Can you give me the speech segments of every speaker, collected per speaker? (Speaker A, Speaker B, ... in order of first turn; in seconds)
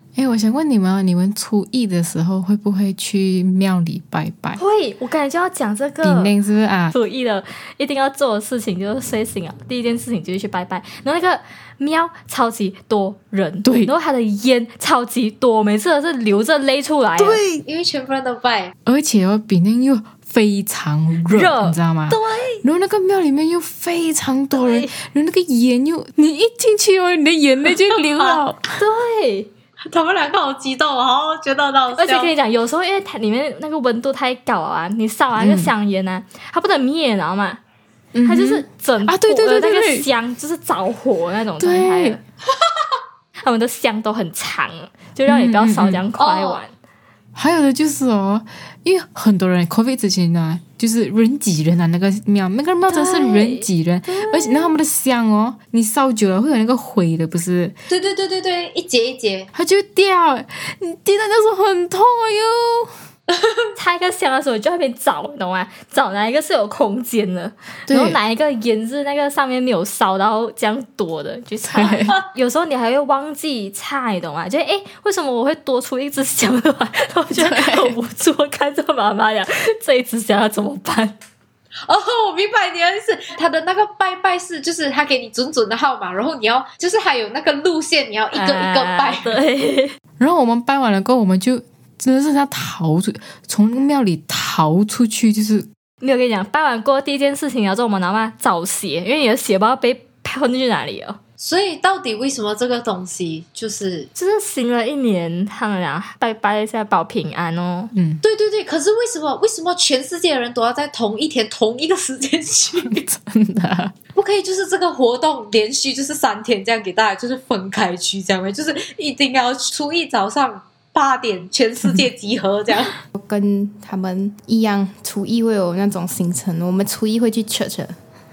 Speaker A: 0.2-4.6, 6.0-6.9, 13.6-13.9, 17.2-17.6, 18.9-28.8, 35.4-35.7, 38.1-40.1, 41.6-42.2, 45.3-46.0, 47.4-57.8, 59.5-62.9, 67.9-68.2, 71.7-72.2, 77.3-78.0, 90.2-95.7, 107.9-108.2, 112.8-113.9
Speaker B: 4.6-6.3, 6.9-17.4, 21.3-21.8, 24.6-24.9, 28.8-29.5, 31.9-37.6, 38.2-42.2, 43.4-46.7, 52.9-53.7, 63.8-81.2, 88.3-90.0, 96.0-101.2, 104.2-107.9
Speaker C: 17.6-18.7, 22.1-22.6, 27.8-28.4, 29.9-32.3, 46.1-46.6, 54.1-54.8, 57.9-59.5, 71.8-72.2, 81.8-89.4, 101.4-104.1, 108.2-113.0, 114.2-122.9
Speaker D: 123.2-128.0